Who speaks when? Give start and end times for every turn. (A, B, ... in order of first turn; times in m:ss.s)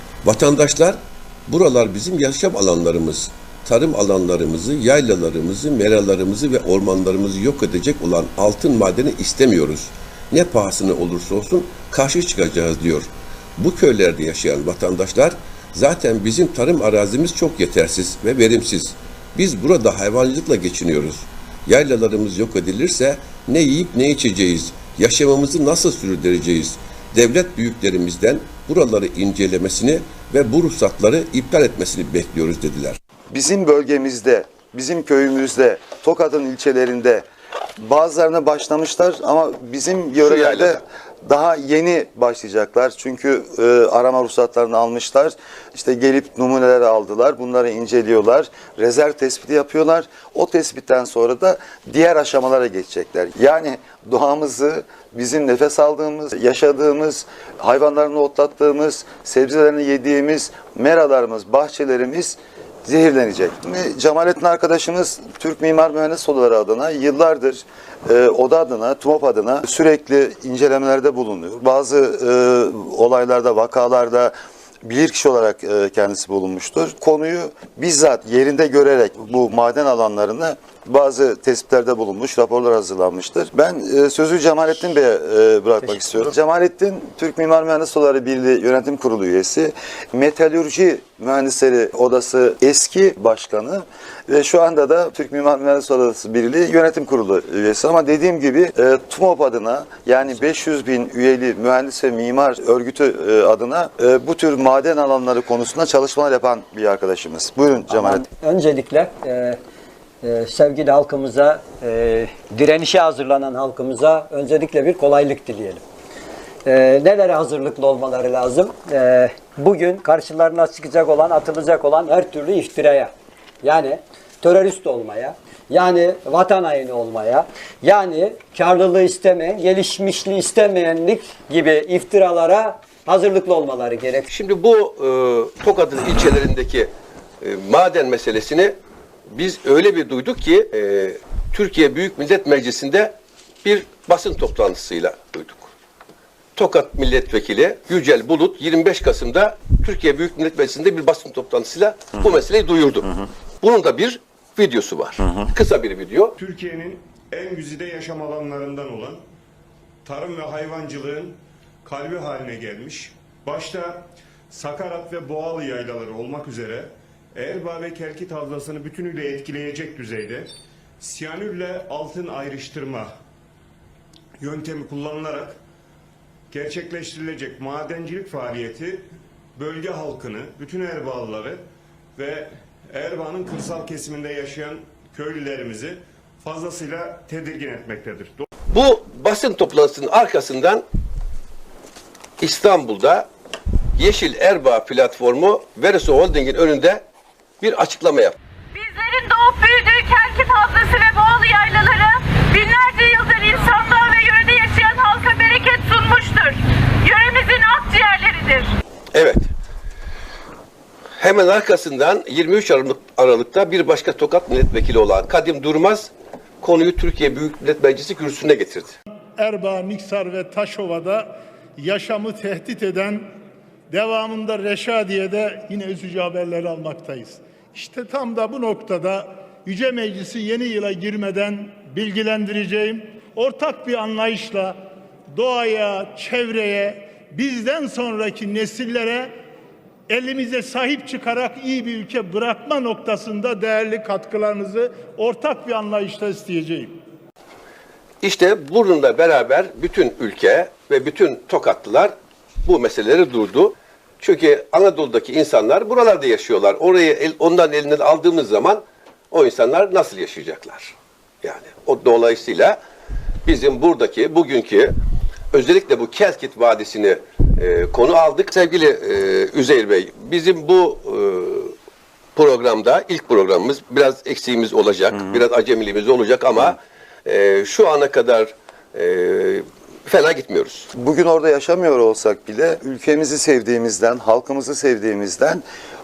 0:00.2-0:33.0 A
0:33.3-0:37.2 B
0:37.8-1:14.3 B
0:40.2-0:40.8 A
1:14.8-1:48.2 B
1:25.8-1:26.2 C
1:47.9-1:49.6 C
1:50.2-1:55.8 C
1:56.6-2:14.3 C
2:14.3-2:18.7 A
2:19.3-2:25.7 A
2:26.6-2:36.3 A
2:36.4-2:39.2 D
2:40.0-2:53.1 D
2:54.4-2:55.6 D
2:56.5-3:01.6 D
3:02.2-3:08.4 D
3:08.7-3:10.8 A
3:12.4-3:13.3 A
3:14.0-3:17.0 A
3:17.6-3:18.4 A
3:18.7-3:28.7 E
3:29.1-3:29.5 A
3:31.2-3:36.1 A
3:36.6-3:39.0 A
3:39.4-3:43.2 F
3:43.9-3:54.8 F
3:55.3-3:59.3 F
4:00.1-4:06.9 F
4:08.2-4:12.1 A
4:12.6-4:22.8 A
4:23.4-4:25.0 A
4:25.5-4:31.7 A
4:32.4-4:40.9 A
4:40.9-4:45.6 B